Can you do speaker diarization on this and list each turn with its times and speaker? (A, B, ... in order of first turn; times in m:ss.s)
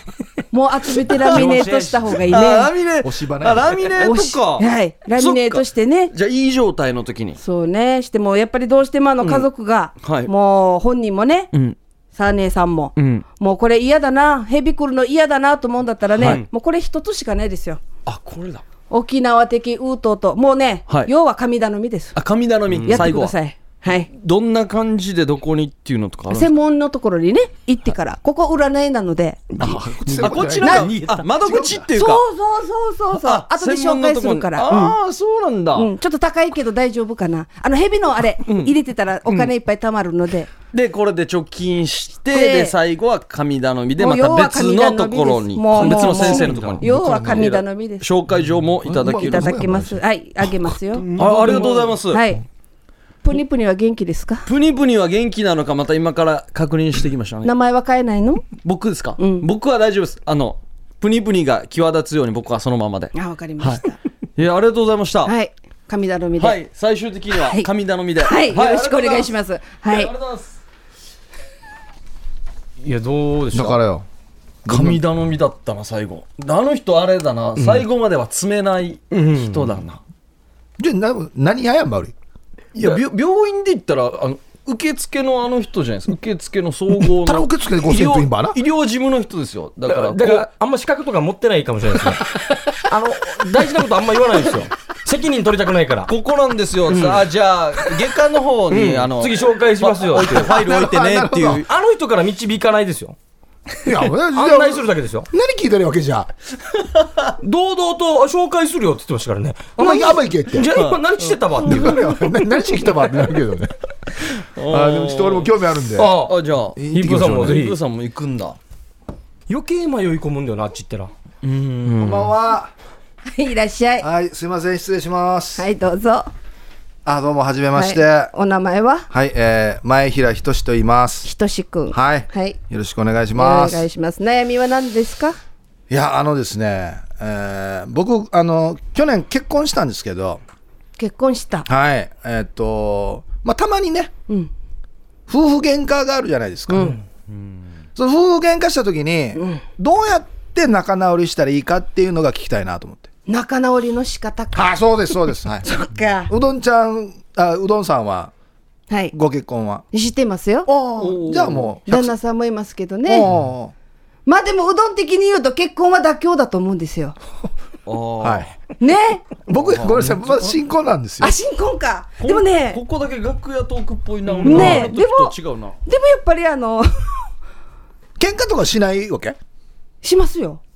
0:00.5-0:02.7 A
0:01.1-0:01.4 B
0:01.2-0:02.2 C
0:02.2-0:07.4 B
0:03.0-0:03.9 D
0:04.0-0:06.1 A
0:07.4-0:11.5 A
0:09.2-0:09.5 B
0:10.0-0:10.3 B
0:12.2-0:17.8 A
0:13.0-0:13.2 B
0:16.2-0:16.5 B
0:18.1-0:18.5 C
0:18.1-0:18.6 B
0:18.9-0:22.2 A
0:22.1-0:23.4 B
0:22.8-0:23.1 C
0:22.9-0:24.1 A
0:23.9-0:26.5 B
0:26.3-0:29.6 A
0:29.6-0:31.3 C
0:29.6-0:31.9 D
0:30.2-0:32.2 B
0:30.6-0:30.9 A
0:31.9-0:35.0 A
0:33.2-0:35.9 B
0:35.8-0:40.5 A
0:38.5-0:38.7 B
0:39.3-0:39.5 B
0:40.7-0:49.6 B
0:42.3-0:42.8 A
0:44.0-0:48.0 A
0:45.8-0:46.8 C
0:46.2-0:47.5 D
0:48.8-0:50.8 D
0:49.0-0:52.4 A
0:50.9-0:52.0 C
0:51.1-0:52.2 B
0:53.2-0:54.5 A
0:54.5-0:57.5 B
0:57.4-0:58.5 A
0:58.6-1:03.8 B
0:59.2-0:59.5 A
1:03.1-1:04.0 A
1:04.4-1:05.3 B
1:05.3-1:06.6 A
1:06.4-1:09.4 B
1:07.3-1:10.1 A
1:09.9-1:10.6 B
1:12.8-1:13.8 C
1:13.5-1:14.1 D
1:14.7-1:15.0 D
1:14.7-1:20.0 B
1:17.6-1:17.9 C
1:19.1-1:19.7 C
1:20.8-1:22.1 D
1:22.8-1:30.5 B
1:27.1-1:28.6 D
1:29.9-1:36.1 C
1:36.1-1:41.7 B
1:36.9-1:37.2 C
1:38.7-1:40.6 C
1:40.2-1:41.6 D
1:41.7-1:43.2 C
1:43.8-1:46.3 D
1:44.3-1:45.3 C
1:46.8-1:47.4 B
1:47.4-1:52.0 C
1:49.8-1:50.7 D
1:50.6-1:52.0 B
1:51.6-1:53.7 D
1:54.2-1:56.8 B
1:54.7-1:56.1 D
1:56.0-1:56.4 C
1:56.8-1:57.6 D
1:56.9-1:57.8 C
1:57.4-1:58.6 B
1:59.5-2:01.1 C
2:01.4-2:02.3 B
2:02.0-2:02.7 D
2:03.2-2:04.1 A
2:04.0-2:05.7 D
2:05.6-2:06.3 A
2:07.0-2:08.3 D
2:07.8-2:09.1 A
2:09.1-2:11.3 D
2:11.2-2:12.6 A
2:11.9-2:13.9 D
2:13.4-2:15.4 A
2:15.9-2:20.4 D
2:21.0-2:21.7 A
2:21.7-2:24.1 D
2:25.3-2:27.0 D
2:26.7-2:27.0 A
2:27.3-2:27.7 B
2:28.0-2:33.1 D
2:29.4-2:29.6 A
2:33.3-2:34.8 A
2:34.5-2:35.7 D
2:35.3-2:36.3 A
2:36.3-2:38.3 D
2:39.1-2:39.8 D
2:39.9-2:40.7 A
2:40.7-2:42.2 D
2:41.0-2:41.7 B
2:41.9-2:43.3 A
2:43.1-2:43.7 D
2:44.3-2:47.2 A
2:47.9-2:48.5 B
2:48.2-2:48.6 D
2:48.8-2:49.4 A
2:49.5-2:51.4 D
2:49.5-2:50.5 B
2:51.2-2:52.8 A
2:52.2-2:55.8 B
2:54.3-2:54.8 C
2:54.4-2:55.3 A
2:54.5-2:54.9 D
2:55.9-2:57.2 A
2:58.2-2:59.4 D
3:00.0-3:00.6 A